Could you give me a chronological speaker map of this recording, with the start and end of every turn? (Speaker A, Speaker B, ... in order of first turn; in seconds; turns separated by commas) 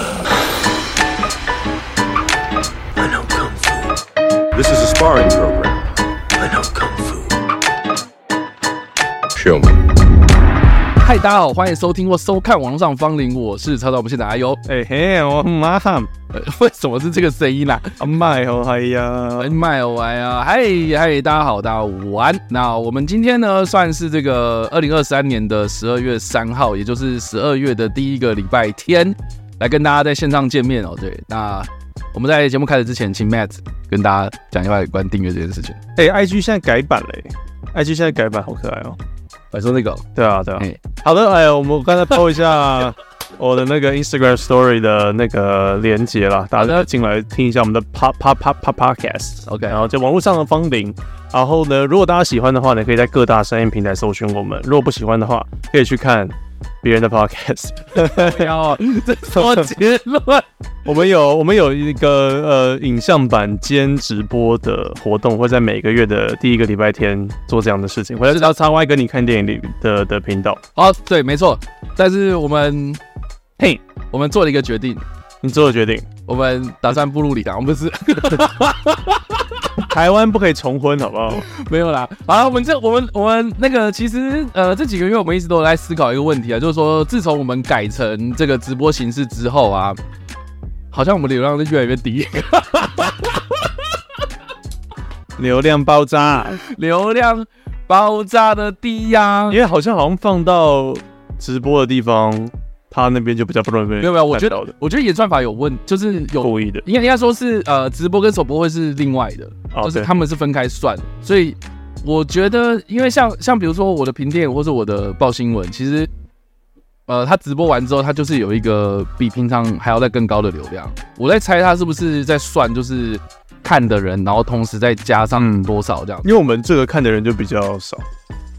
Speaker A: 3.0-3.9, Speaker A: 4.5-5.9, Speaker A: 6.4-7.3, Speaker A: 9.3-9.8, Speaker B: 11.0-14.6, Speaker C: 14.7-16.1, Speaker B: 16.3-18.0, Speaker C: 18.0-19.6, Speaker B: 19.4-35.8, Speaker C: 36.0-39.0, Speaker B: 39.5-40.0, Speaker C: 40.1-58.5, Speaker B: 46.6-46.8, Speaker B: 49.5-49.8, Speaker B: 58.0-60.5, Speaker C: 59.3-59.7, Speaker C: 60.8-70.6, Speaker B: 70.8-73.0, Speaker B: 74.1-75.0, Speaker C: 75.4-76.1, Speaker B: 76.3-79.8, Speaker C: 79.8-81.5, Speaker B: 81.5-90.0, Speaker B: 90.9-93.7, Speaker C: 95.4-96.6, Speaker B: 96.6-99.6, Speaker C: 99.5-104.7, Speaker B: 104.0-116.1, Speaker C: 106.4-106.8, Speaker C: 109.7-110.1, Speaker B: 117.1-126.3, Speaker C: 125.3-125.7, Speaker C: 126.2-128.0